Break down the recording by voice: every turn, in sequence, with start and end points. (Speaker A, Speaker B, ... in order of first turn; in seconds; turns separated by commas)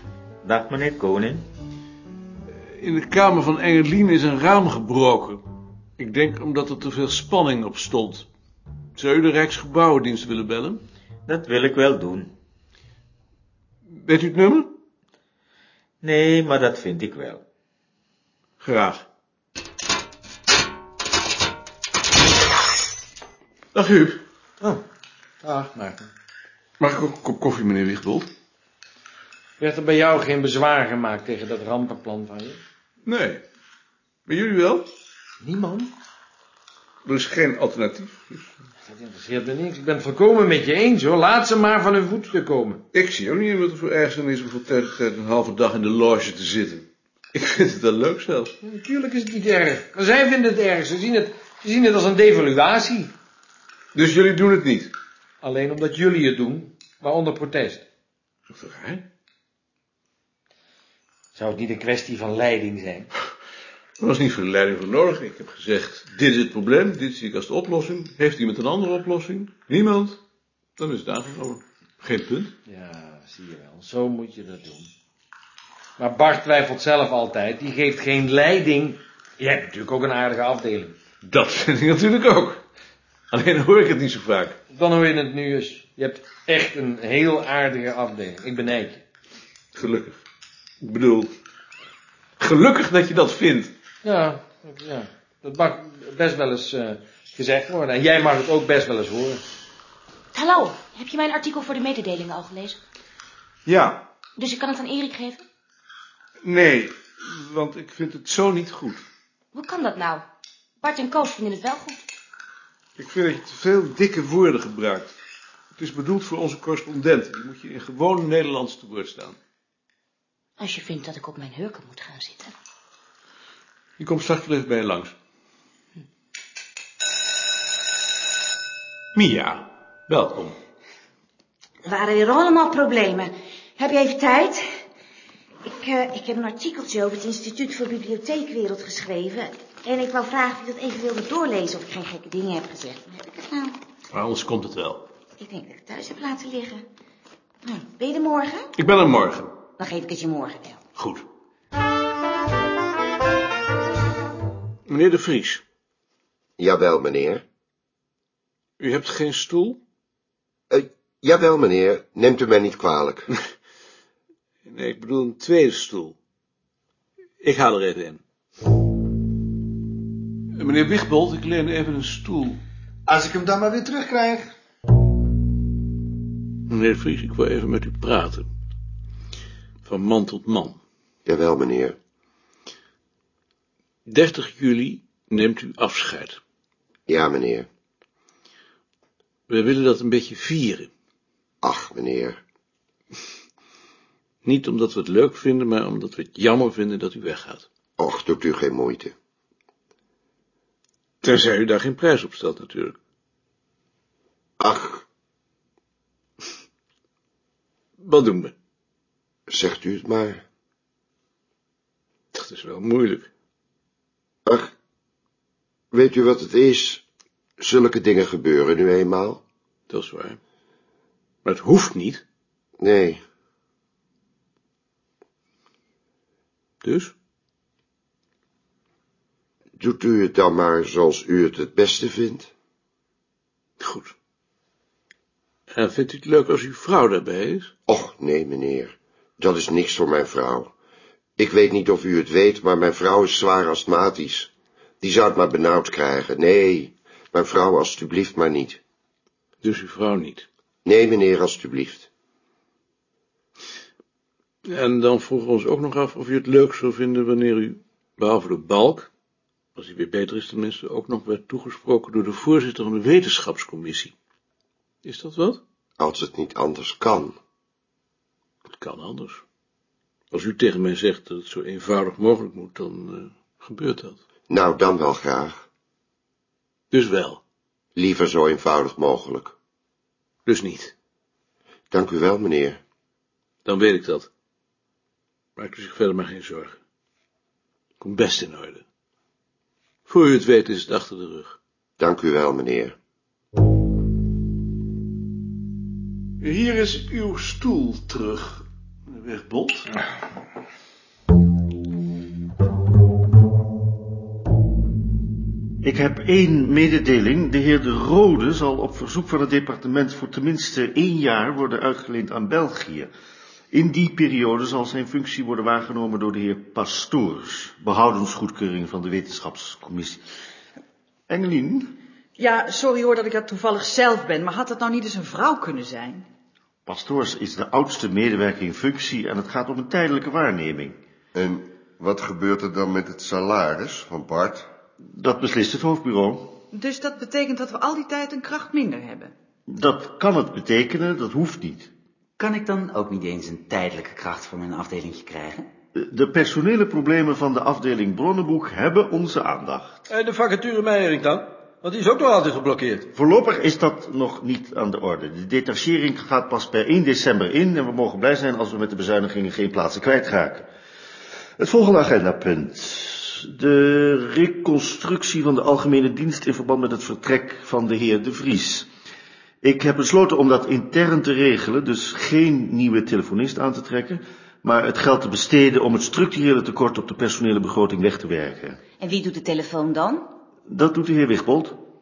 Speaker A: 0.4-1.4, Speaker B: 2.7-5.4, Speaker B: 6.0-8.3, Speaker B: 9.0-10.8, Speaker A: 11.3-12.3, Speaker B: 14.0-14.7, Speaker A: 16.0-17.4, Speaker B: 18.6-19.1, Speaker B: 23.7-24.2, Speaker C: 25.4-26.1, Speaker B: 26.8-28.3, Speaker C: 29.6-32.6, Speaker B: 33.0-33.4, Speaker B: 34.3-34.9, Speaker C: 35.4-35.9, Speaker B: 37.0-38.5, Speaker C: 38.8-42.8, Speaker B: 42.9-48.5, Speaker C: 48.6-53.1, Speaker B: 54.0-54.9, Speaker C: 55.4-57.9, Speaker B: 58.5-59.0, Speaker C: 61.4-63.1, Speaker B: 64.0-70.2, Speaker B: 70.8-72.5, Speaker C: 72.7-74.9, Speaker C: 76.0-81.0, Speaker B: 81.2-82.6, Speaker B: 83.3-84.6, Speaker C: 84.7-89.0, Speaker B: 89.8-90.2, Speaker B: 90.8-91.3, Speaker B: 92.4-93.7, Speaker C: 94.0-99.4, Speaker D: 100.3-102.8, Speaker B: 103.7-104.0, Speaker D: 104.4-105.4, Speaker B: 106.4-109.0, Speaker D: 109.5-110.2, Speaker D: 110.8-112.0, Speaker B: 113.0-115.1, Speaker B: 115.8-119.4, Speaker D: 120.6-122.5, Speaker B: 124.0-125.2, Speaker B: 129.1-130.6, Speaker E: 131.8-134.7, Speaker E: 135.7-143.8, Speaker B: 144.1-145.1, Speaker E: 145.4-146.8, Speaker E: 147.6-148.7, Speaker B: 148.8-149.5, Speaker E: 149.8-150.8, Speaker B: 151.0-151.2, Speaker B: 154.9-155.6, Speaker F: 156.6-157.4, Speaker B: 158.8-159.8, Speaker F: 160.7-163.3, Speaker B: 164.7-166.2, Speaker B: 167.4-168.2, Speaker B: 170.6-172.6, Speaker B: 176.7-178.5, Speaker B: 179.8-180.8, Speaker F: 181.3-182.0, Speaker B: 184.1-186.4, Speaker F: 187.1-187.7, Speaker B: 189.5-190.9, Speaker F: 191.6-192.4, Speaker B: 194.4-197.7, Speaker F: 198.0-199.1, Speaker B: 201.2-203.0, Speaker F: 204.6-205.0, Speaker B: 208.0-208.5, Speaker F: 209.5-210.4, Speaker B: 212.3-213.3, Speaker F: 214.5-214.7, Speaker F: 215.9-217.0, Speaker F: 217.6-219.4, Speaker B: 219.9-220.4, Speaker B: 221.4-222.2, Speaker F: 222.8-223.2, Speaker B: 226.8-227.1, Speaker F: 229.8-232.5, Speaker B: 233.8-234.2, Speaker B: 235.7-237.7, Speaker F: 237.9-240.7, Speaker F: 241.4-244.5, Speaker F: 245.0-248.8, Speaker B: 249.6-250.5, Speaker F: 250.8-252.1, Speaker B: 254.7-259.1, Speaker B: 259.8-264.1, Speaker B: 265.0-265.6, Speaker F: 266.0-267.4, Speaker B: 268.7-269.4, Speaker B: 270.3-274.2, Speaker F: 274.5-275.6, Speaker B: 276.9-277.4, Speaker F: 278.0-279.5, Speaker B: 280.5-280.9, Speaker F: 281.9-282.8, Speaker B: 283.6-284.3, Speaker B: 285.6-286.8, Speaker B: 288.0-288.8, Speaker B: 290.1-291.6, Speaker F: 292.0-292.9, Speaker B: 296.4-299.9, Speaker G: 305.8-313.1, Speaker G: 313.7-320.2, Speaker G: 321.3-321.9, Speaker H: 322.4-326.3, Speaker G: 326.9-331.0, Speaker F: 331.3-334.7, Speaker G: 335.1-336.6, Speaker H: 336.7-339.3, Speaker G: 339.7-341.9, Speaker I: 342.4-345.7, Speaker G: 345.9-350.0, Speaker J: 350.1-353.1, Speaker G: 353.1-360.7, Speaker G: 361.6-368.9, Speaker G: 369.6-378.8, Speaker E: 379.0-380.3, Speaker G: 380.7-381.8